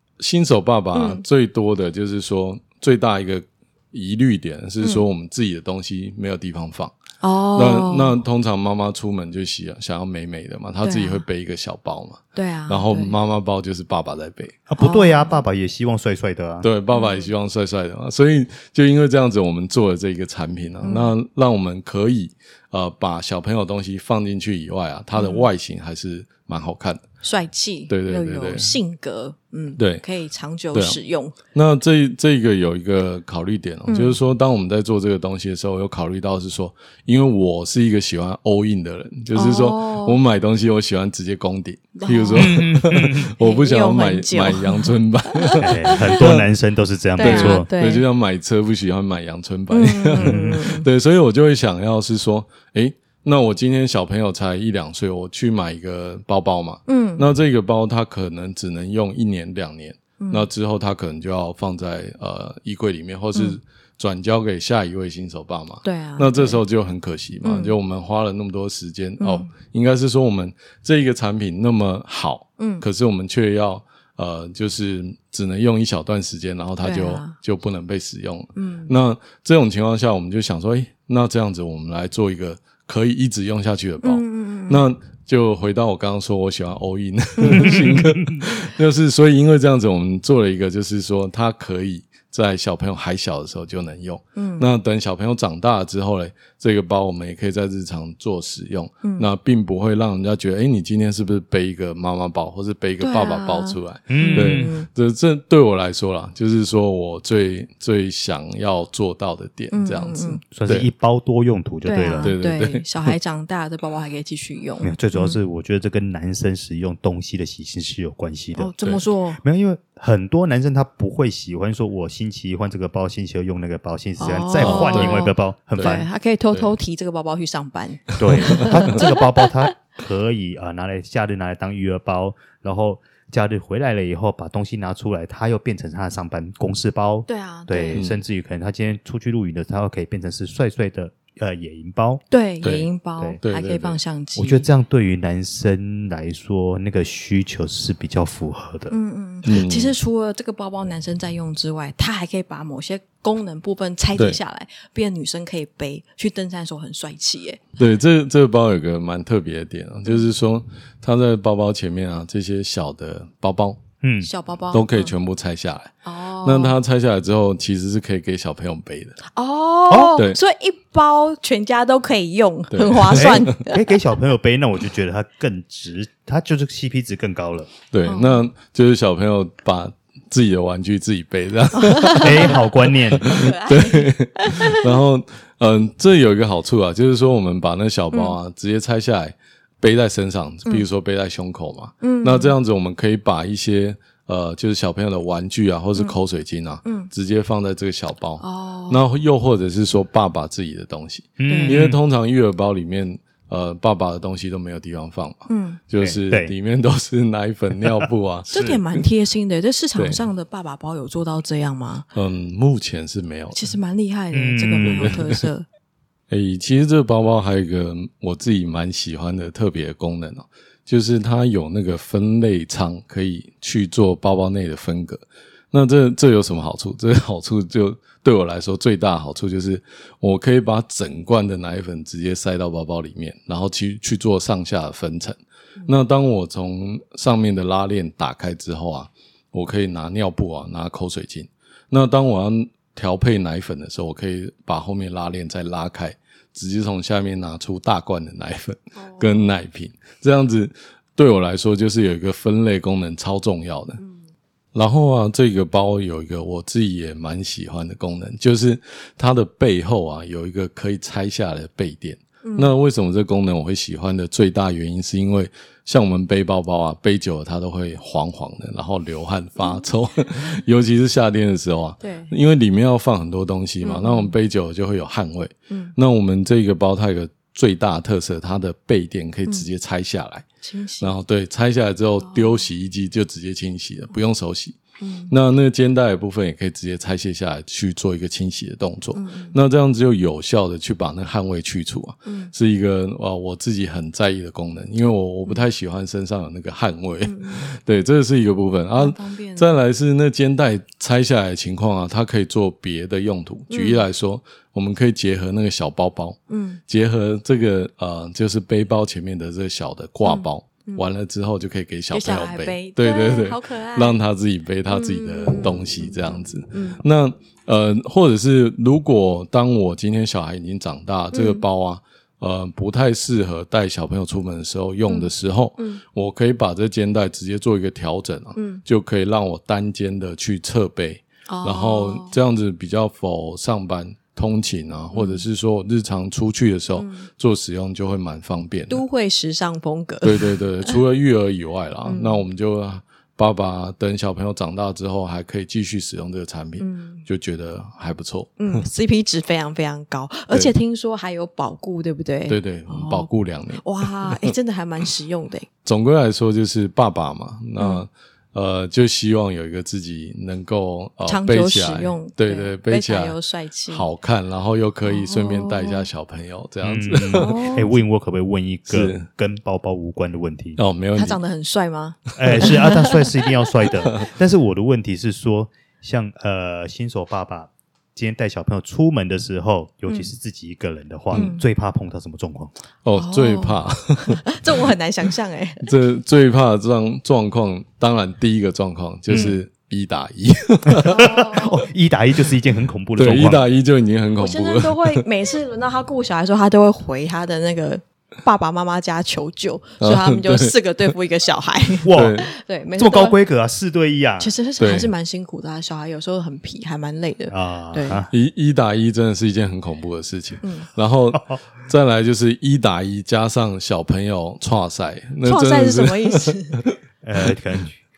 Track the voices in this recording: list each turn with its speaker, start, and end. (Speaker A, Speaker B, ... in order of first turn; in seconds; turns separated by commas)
Speaker A: 0.2-6.9, Speaker B: 0.9-1.2, Speaker B: 7.2-8.2, Speaker A: 7.5-14.6, Speaker B: 10.8-11.2, Speaker B: 12.3-13.2, Speaker C: 14.7-16.7, Speaker B: 14.8-15.4, Speaker A: 16.6-27.0, Speaker B: 16.9-17.3, Speaker B: 20.8-21.1, Speaker B: 25.1-25.5, Speaker B: 27.2-31.4, Speaker A: 27.9-28.8, Speaker A: 29.8-30.0, Speaker A: 30.7-31.0, Speaker A: 31.5-46.5, Speaker B: 33.9-34.2, Speaker B: 39.3-40.2, Speaker B: 42.0-42.6, Speaker C: 42.3-43.3, Speaker B: 43.4-46.0, Speaker C: 45.6-47.6, Speaker B: 47.2-48.1, Speaker A: 47.2-110.9, Speaker B: 49.7-50.9, Speaker C: 50.2-50.5, Speaker B: 56.9-57.3, Speaker B: 60.2-60.5, Speaker B: 65.8-66.6, Speaker B: 67.4-67.8, Speaker B: 69.2-69.5, Speaker B: 72.6-72.8, Speaker B: 76.8-77.3, Speaker B: 78.5-78.9, Speaker B: 84.0-84.9, Speaker B: 87.5-87.8, Speaker C: 87.6-88.0, Speaker B: 94.3-94.7, Speaker B: 99.0-99.3, Speaker B: 103.0-104.9, Speaker C: 104.1-104.7, Speaker B: 109.7-110.4, Speaker C: 110.5-112.3, Speaker B: 111.8-115.4, Speaker A: 112.1-113.1, Speaker C: 114.8-118.7, Speaker B: 118.5-119.4, Speaker C: 119.4-126.1, Speaker B: 124.2-129.3, Speaker A: 124.6-125.2, Speaker A: 125.8-126.7, Speaker C: 128.2-142.2, Speaker A: 128.2-128.8, Speaker B: 137.3-138.0, Speaker A: 137.9-138.2, Speaker B: 142.3-144.7, Speaker A: 142.6-142.9, Speaker A: 143.4-144.0, Speaker C: 144.3-148.9, Speaker B: 148.9-157.7, Speaker A: 149.4-149.9, Speaker A: 157.8-163.8, Speaker C: 164.0-164.3, Speaker B: 164.2-165.1, Speaker A: 164.7-169.2, Speaker B: 166.0-166.8, Speaker B: 169.3-173.8, Speaker C: 169.9-170.2, Speaker A: 172.7-173.5, Speaker C: 173.2-177.7, Speaker A: 177.9-182.6, Speaker B: 178.0-178.5, Speaker B: 181.8-182.6, Speaker C: 182.2-183.4, Speaker A: 183.1-209.0, Speaker B: 183.2-184.8, Speaker B: 188.1-188.4, Speaker B: 192.0-192.6, Speaker B: 196.8-197.1, Speaker B: 198.4-199.0, Speaker C: 201.4-202.0, Speaker B: 201.5-201.8, Speaker B: 205.5-205.8, Speaker C: 206.0-206.5, Speaker C: 207.9-208.8, Speaker B: 208.5-212.1, Speaker A: 209.9-210.2, Speaker A: 212.1-213.6, Speaker B: 213.5-215.7, Speaker C: 214.3-215.2, Speaker A: 214.8-215.2, Speaker A: 216.3-254.0, Speaker B: 248.9-249.6, Speaker B: 254.0-254.3, Speaker A: 254.7-280.4, Speaker B: 262.4-262.8, Speaker B: 269.6-269.9, Speaker B: 272.0-272.3, Speaker B: 273.8-274.4, Speaker B: 280.6-281.1, Speaker A: 281.0-284.8, Speaker B: 282.2-282.7, Speaker B: 285.0-285.3, Speaker A: 285.3-339.0, Speaker B: 289.1-289.6, Speaker B: 292.2-292.5, Speaker B: 297.2-297.6, Speaker B: 298.9-299.8, Speaker B: 303.7-304.0, Speaker B: 306.5-306.8, Speaker B: 310.2-311.1, Speaker B: 312.1-314.2, Speaker B: 314.9-317.0, Speaker B: 321.3-321.6, Speaker B: 325.1-326.0, Speaker B: 328.5-328.8, Speaker B: 331.5-332.4, Speaker B: 335.1-335.4, Speaker B: 336.9-337.3, Speaker B: 338.9-341.0, Speaker A: 340.2-348.8, Speaker B: 342.0-342.4, Speaker B: 346.8-347.2, Speaker B: 348.6-355.7, Speaker A: 352.5-354.5, Speaker A: 355.8-363.4, Speaker B: 357.8-358.0, Speaker B: 361.2-364.1, Speaker A: 363.9-367.8, Speaker B: 365.0-366.1, Speaker C: 366.8-370.8, Speaker B: 367.3-368.0, Speaker A: 368.9-369.2, Speaker A: 370.8-371.4, Speaker B: 371.1-373.2, Speaker C: 372.4-382.7, Speaker B: 381.3-381.6, Speaker A: 383.0-384.4, Speaker B: 383.2-385.9, Speaker A: 385.8-391.7, Speaker C: 389.3-389.5, Speaker C: 391.0-393.7, Speaker B: 391.1-391.8, Speaker A: 393.1-395.2, Speaker B: 394.4-403.4, Speaker A: 400.0-400.7, Speaker C: 402.0-402.4, Speaker A: 402.1-402.5, Speaker C: 403.0-404.5, Speaker B: 404.4-408.2, Speaker A: 404.8-405.1, Speaker C: 407.5-408.3, Speaker A: 408.3-416.9, Speaker B: 410.6-410.9, Speaker C: 411.3-411.6, Speaker B: 415.4-416.8, Speaker C: 417.2-418.0